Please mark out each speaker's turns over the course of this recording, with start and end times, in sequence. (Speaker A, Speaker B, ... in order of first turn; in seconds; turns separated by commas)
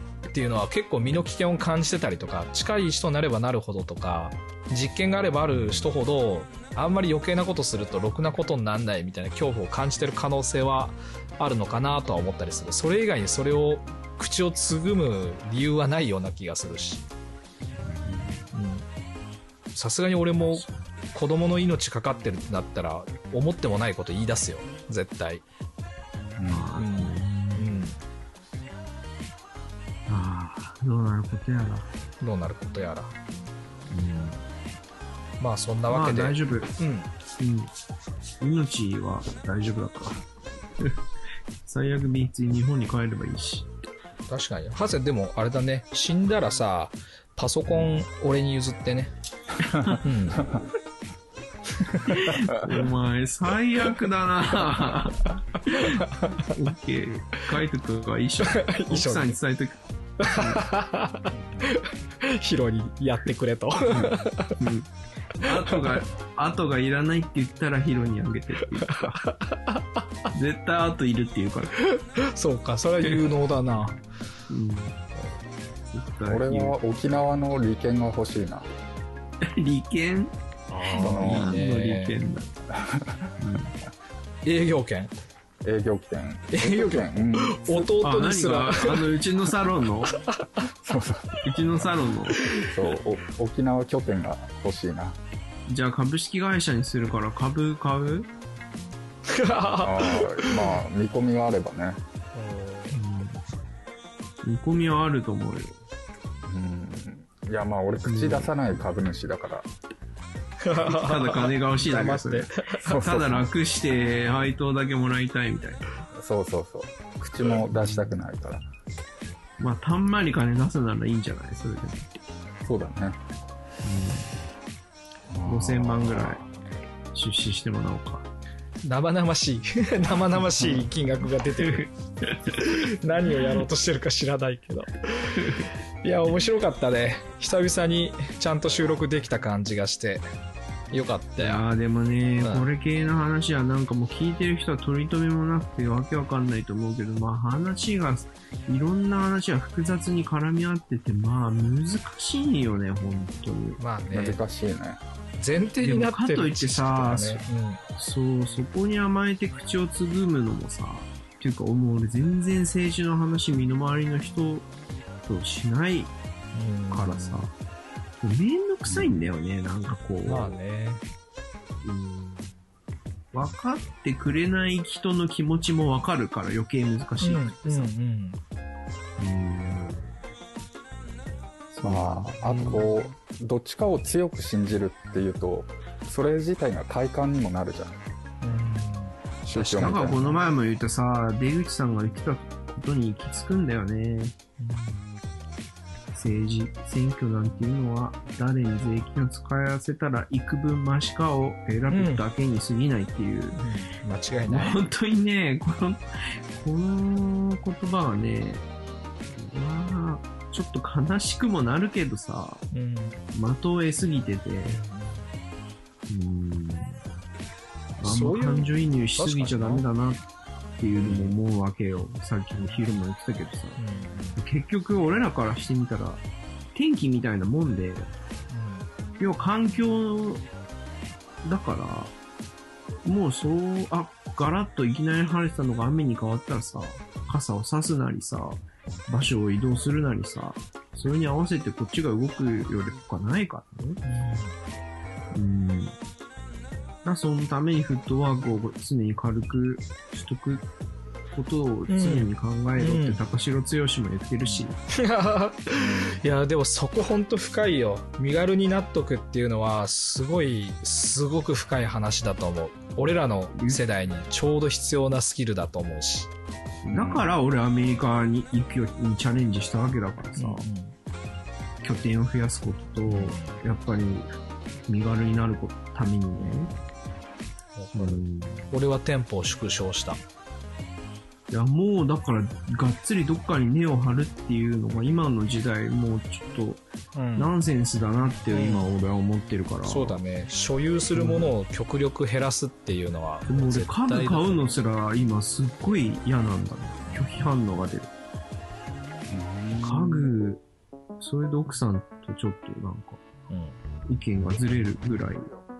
Speaker A: 0.3-17.0, Speaker B: 17.8-18.5, Speaker C: 18.0-18.3, Speaker A: 18.5-18.9, Speaker A: 19.7-25.4, Speaker C: 26.4-26.7, Speaker B: 26.5-27.7, Speaker A: 26.8-28.0, Speaker B: 30.1-31.9, Speaker A: 32.2-33.1, Speaker B: 33.9-34.4, Speaker A: 35.4-37.1, Speaker B: 35.9-36.8, Speaker B: 37.4-37.7, Speaker B: 38.4-40.2, Speaker B: 41.6-43.7, Speaker A: 44.3-49.1, Speaker B: 49.6-50.0, Speaker A: 49.9-50.5, Speaker A: 51.8-52.3, Speaker B: 52.1-60.6, Speaker A: 55.7-56.5, Speaker A: 58.5-59.3, Speaker A: 60.2-64.6, Speaker C: 61.3-61.7, Speaker B: 64.6-69.2, Speaker A: 65.5-66.0, Speaker A: 68.8-70.0, Speaker B: 70.3-71.7, Speaker A: 71.8-74.0, Speaker B: 74.5-75.0, Speaker B: 75.8-76.8, Speaker C: 76.2-78.7, Speaker B: 79.4-82.5, Speaker A: 80.7-82.2, Speaker C: 81.0-81.6, Speaker C: 82.7-83.3, Speaker B: 83.4-83.7, Speaker A: 84.4-85.1, Speaker C: 85.6-87.9, Speaker A: 86.5-89.1, Speaker B: 88.0-90.1, Speaker A: 90.2-90.4, Speaker C: 90.8-91.8, Speaker B: 91.4-92.4, Speaker A: 92.4-92.7, Speaker C: 92.5-95.2, Speaker B: 95.7-98.3, Speaker A: 99.3-100.8, Speaker C: 99.8-102.0, Speaker A: 102.3-103.0, Speaker B: 102.9-103.4, Speaker B: 104.4-105.8, Speaker C: 106.5-109.7, Speaker B: 108.0-108.8, Speaker A: 110.6-112.9, Speaker B: 110.8-115.8, Speaker C: 112.9-113.4, Speaker C: 116.1-118.6, Speaker B: 119.6-122.1, Speaker C: 122.6-123.2, Speaker B: 123.8-124.3, Speaker C: 125.3-126.4, Speaker B: 125.5-126.4, Speaker B: 127.1-128.3, Speaker A: 128.8-131.8, Speaker B: 130.5-133.3, Speaker A: 132.4-140.2, Speaker B: 135.4-135.7, Speaker A: 140.9-141.6, Speaker B: 141.4-153.8, Speaker A: 142.4-142.7, Speaker A: 153.8-154.4, Speaker C: 154.1-155.0, Speaker A: 155.4-157.8, Speaker B: 155.8-157.4, Speaker B: 158.0-164.7, Speaker B: 165.2-166.1, Speaker A: 166.5-167.5, Speaker B: 166.9-167.5, Speaker B: 168.2-170.6, Speaker C: 168.9-169.2, Speaker A: 170.2-171.0, Speaker B: 171.8-172.5, Speaker B: 173.3-177.9, Speaker A: 177.2-178.4, Speaker B: 179.2-180.1, Speaker B: 181.7-182.9, Speaker C: 181.8-188.0, Speaker A: 188.4-190.3, Speaker C: 189.4-190.3, Speaker B: 189.8-194.3, Speaker A: 194.6-195.0, Speaker B: 196.1-203.6, Speaker A: 201.9-202.2, Speaker A: 203.6-204.9, Speaker B: 204.5-208.6, Speaker B: 209.3-212.6, Speaker A: 212.7-213.2, Speaker B: 213.3-214.8, Speaker A: 214.7-215.3, Speaker B: 216.1-217.0, Speaker B: 218.0-220.2, Speaker A: 218.0-219.8, Speaker B: 220.8-223.8, Speaker A: 221.0-221.4, Speaker A: 223.8-224.4, Speaker B: 224.3-226.2, Speaker B: 226.7-228.1, Speaker A: 228.5-228.9, Speaker B: 229.2-230.4, Speaker B: 231.4-232.1, Speaker B: 233.0-244.0, Speaker A: 244.0-244.5, Speaker B: 245.3-245.9, Speaker B: 247.0-250.7, Speaker B: 251.3-254.8, Speaker A: 251.9-253.2, Speaker A: 254.5-266.3, Speaker C: 255.7-256.2, Speaker B: 263.5-263.8, Speaker B: 266.8-270.6, Speaker A: 266.9-267.3, Speaker A: 270.4-270.9, Speaker B: 271.8-274.3, Speaker A: 273.1-273.6, Speaker B: 274.9-276.7, Speaker A: 276.3-276.8, Speaker A: 277.8-280.2, Speaker B: 277.9-278.7, Speaker B: 281.5-286.8, Speaker A: 287.1-287.5, Speaker B: 287.4-290.2, Speaker A: 288.5-288.9, Speaker A: 289.8-294.6, Speaker B: 291.1-291.5, Speaker B: 293.5-298.1, Speaker C: 299.3-300.3, Speaker B: 299.8-300.6, Speaker B: 301.2-303.2, Speaker A: 303.5-303.8, Speaker B: 304.1-305.5